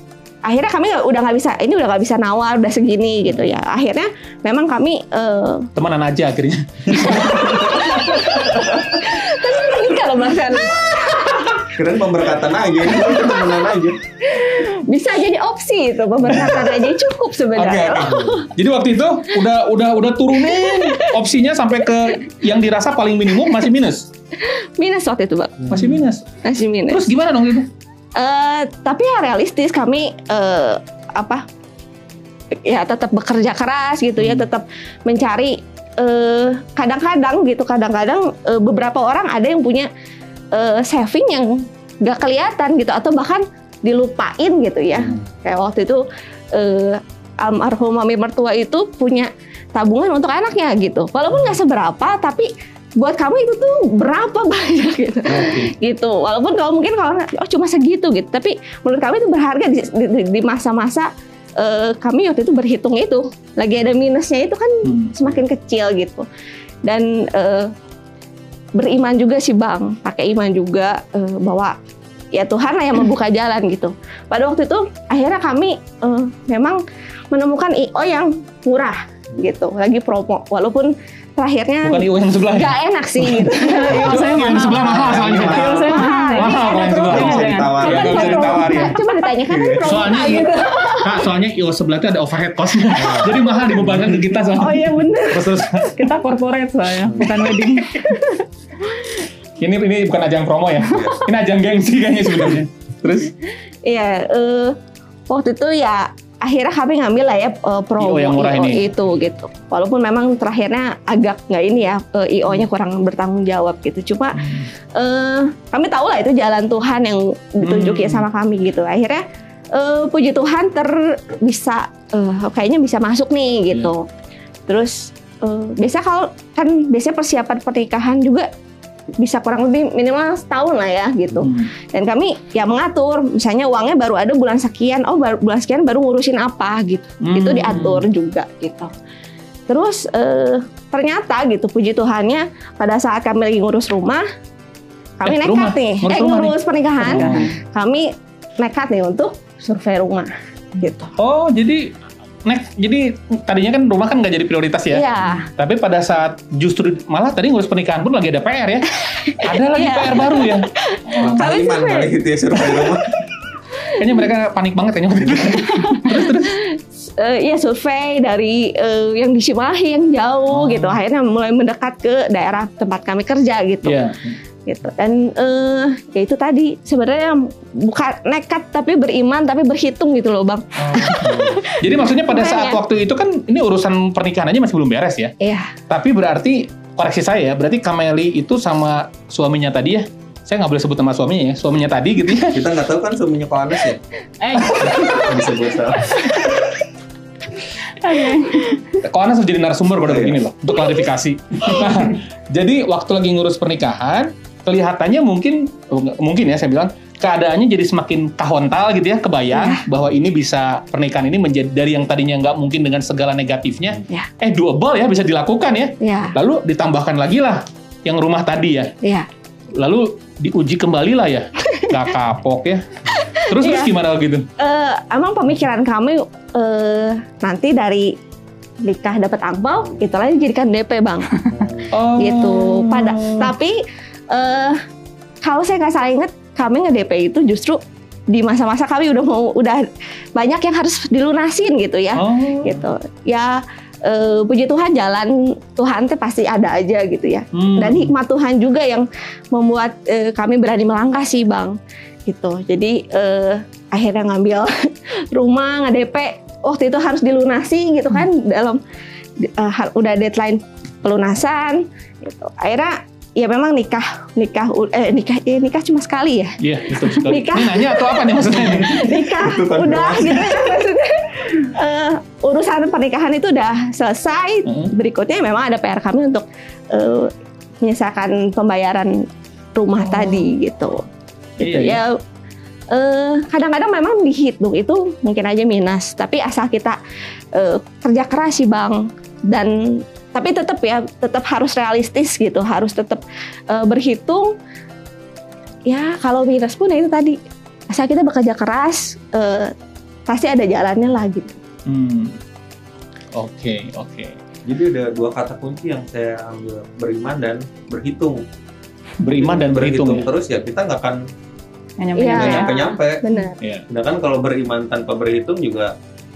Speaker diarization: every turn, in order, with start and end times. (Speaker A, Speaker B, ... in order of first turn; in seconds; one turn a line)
Speaker A: 0.4-5.7
Speaker B: 5.8-8.9
Speaker A: 7.2-11.7
Speaker B: 11.0-11.6
Speaker C: 11.7-14.0
Speaker A: 13.0-13.3
Speaker A: 14.2-18.5
Speaker B: 16.3-16.8
Speaker B: 17.5-24.1
Speaker C: 18.0-18.4
Speaker A: 20.4-21.1
Speaker A: 24.4-25.9
Speaker C: 25.6-26.0
Speaker B: 25.7-26.2
Speaker A: 26.4-27.1
Speaker B: 26.9-27.7
Speaker A: 28.1-31.4
Speaker A: 32.6-39.9
Speaker B: 34.2-34.5
Speaker A: 40.5-66.2
Speaker B: 55.2-55.7
Speaker B: 64.8-65.1
Speaker A: 66.8-67.7
Speaker A: 68.8-71.7
Speaker A: 72.3-84.1
Speaker B: 81.8-89.0
Speaker D: 83.5-88.6
Speaker C: 84.7-86.0
Speaker A: 85.5-91.2
Speaker C: 86.7-88.5
Speaker C: 89.5-90.2
Speaker B: 89.8-96.1
Speaker C: 92.9-94.2
Speaker A: 94.5-95.5
Speaker D: 95.9-98.2
Speaker C: 97.0-97.5
Speaker B: 99.6-103.3
Speaker C: 100.8-101.2
Speaker A: 103.8-104.8
Speaker A: 105.3-119.2
Speaker B: 108.0-108.8
Speaker B: 114.3-114.7
Speaker B: 117.6-118.3
Speaker A: 119.7-124.0
Speaker A: 124.7-128.5
Speaker A: 129.2-138.9
Speaker B: 131.3-131.7
Speaker B: 137.2-138.1
Speaker A: 139.7-144.2
Speaker A: 145.2-151.1
Speaker B: 145.2-147.6
Speaker B: 151.2-151.9
Speaker B: 152.4-161.4
Speaker A: 154.9-155.5
Speaker A: 159.3-162.7
Speaker C: 161.2-163.2
Speaker B: 163.9-166.6
Speaker A: 165.9-174.0
Speaker B: 170.5-171.0
Speaker B: 173.8-174.4
Speaker A: 174.7-182.8
Speaker B: 180.8-185.3
Speaker A: 185.4-185.7
Speaker B: 185.9-192.7
Speaker C: 192.5-194.0
Speaker D: 194.4-195.2
Speaker B: 194.6-195.2
Speaker C: 194.8-196.2
Speaker B: 196.2-196.6
Speaker D: 197.9-198.8
Speaker B: 199.0-218.9
Speaker C: 200.0-200.3
Speaker A: 209.5-209.8
Speaker A: 216.0-216.3
Speaker A: 219.0-219.3
Speaker B: 219.8-222.8
Speaker A: 223.2-223.9
Speaker B: 223.4-224.4
Speaker A: 224.6-228.1
Speaker A: 228.8-231.5
Speaker C: 231.5-231.9
Speaker B: 231.9-233.5
Speaker A: 232.2-233.8
Speaker A: 234.3-234.8
Speaker A: 235.4-251.7
Speaker B: 242.1-242.9
Speaker B: 247.5-248.1
Speaker A: 252.2-258.8
Speaker A: 259.4-281.0
Speaker B: 266.6-269.4
Speaker C: 268.7-270.5
Speaker B: 274.6-274.9
Speaker B: 280.1-280.5
Speaker B: 281.6-282.0
Speaker A: 281.6-282.2
Speaker A: 282.9-287.0
Speaker A: 287.5-294.5
Speaker A: 295.9-297.4
Speaker A: 297.9-299.7
Speaker A: 300.3-301.6
Speaker B: 301.9-302.4
Speaker B: 303.3-304.4
Speaker C: 304.6-308.4
Speaker B: 309.2-310.3
Speaker C: 309.4-311.2
Speaker D: 312.0-312.9
Speaker A: 312.2-313.6
Speaker C: 312.3-313.2
Speaker B: 313.6-313.8
Speaker C: 313.9-315.9